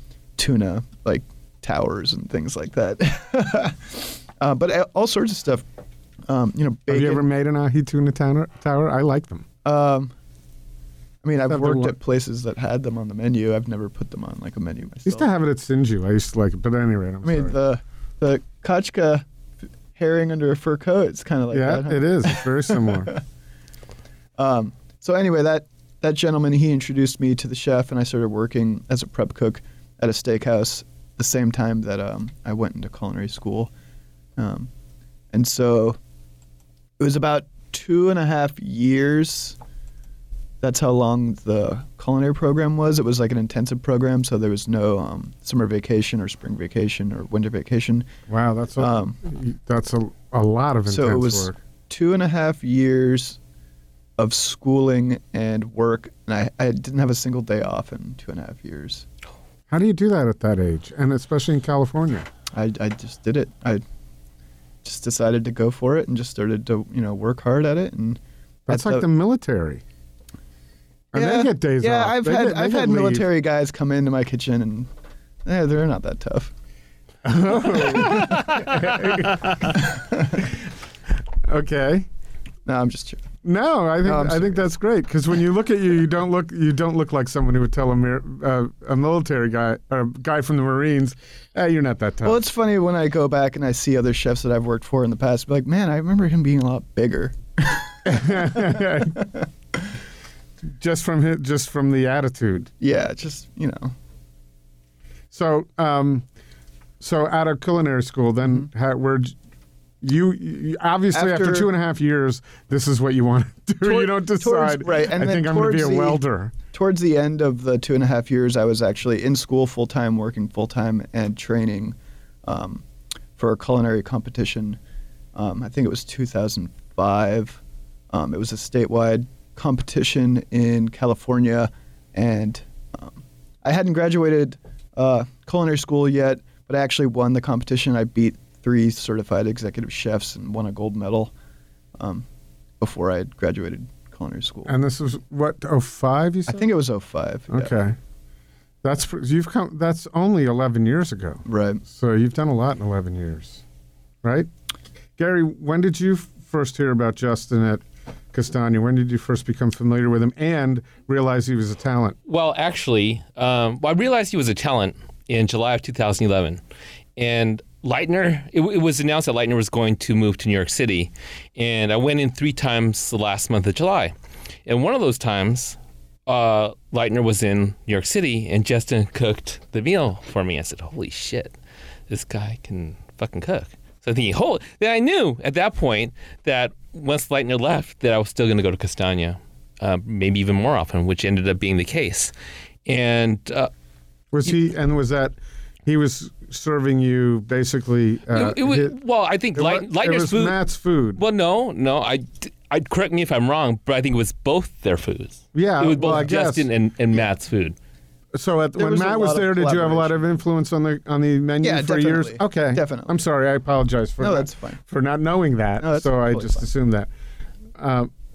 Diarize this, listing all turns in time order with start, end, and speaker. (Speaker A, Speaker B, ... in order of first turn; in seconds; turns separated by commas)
Speaker A: 0.4-5.6, Speaker A: 6.3-7.3, Speaker B: 6.9-9.4, Speaker A: 9.6-10.1, Speaker A: 11.2-15.2, Speaker B: 11.5-12.0, Speaker B: 15.0-17.5, Speaker A: 17.2-19.2, Speaker A: 19.9-23.0, Speaker B: 21.5-23.1, Speaker A: 24.4-33.7, Speaker A: 34.4-34.7, Speaker A: 35.3-36.0, Speaker A: 37.0-39.6, Speaker A: 40.6-48.1, Speaker B: 48.3-51.5, Speaker A: 48.8-49.2, Speaker A: 50.9-53.4, Speaker A: 54.2-59.0, Speaker B: 59.7-62.3, Speaker A: 62.5-63.8, Speaker A: 64.8-69.0, Speaker B: 68.7-69.8, Speaker B: 71.1-73.3, Speaker A: 71.1-74.9, Speaker A: 75.4-76.5, Speaker B: 77.2-79.8, Speaker C: 78.1-78.4, Speaker A: 79.7-80.4, Speaker B: 80.4-80.7, Speaker B: 81.4-82.1, Speaker A: 82.7-83.2, Speaker B: 83.4-92.4, Speaker A: 84.0-84.6, Speaker A: 92.2-99.4, Speaker B: 98.0-99.2, Speaker B: 100.7-102.7, Speaker A: 102.8-103.9, Speaker B: 105.3-106.2, Speaker B: 107.0-109.3, Speaker B: 110.0-116.5, Speaker A: 111.1-111.7, Speaker A: 113.8-122.8, Speaker A: 123.4-124.8, Speaker A: 125.3-127.6, Speaker A: 128.1-141.3, Speaker A: 142.0-142.2, Speaker A: 142.8-144.7, Speaker B: 144.7-146.7, Speaker A: 146.5-147.7, Speaker B: 147.5-148.0, Speaker B: 148.8-153.6, Speaker A: 151.4-151.8, Speaker B: 154.2-154.5, Speaker B: 155.2-157.8, Speaker B: 158.3-162.2, Speaker C: 162.3-166.6, Speaker C: 167.2-174.1, Speaker C: 174.7-181.5, Speaker C: 182.1-192.3, Speaker C: 192.8-193.7, Speaker B: 194.3-198.9, Speaker C: 198.3-200.6, Speaker B: 199.5-201.2, Speaker C: 201.2-207.8, Speaker B: 205.5-206.7, Speaker B: 208.3-217.1, Speaker A: 208.7-210.2, Speaker A: 211.6-213.2, Speaker A: 214.2-214.8, Speaker A: 215.8-216.7, Speaker B: 217.8-218.1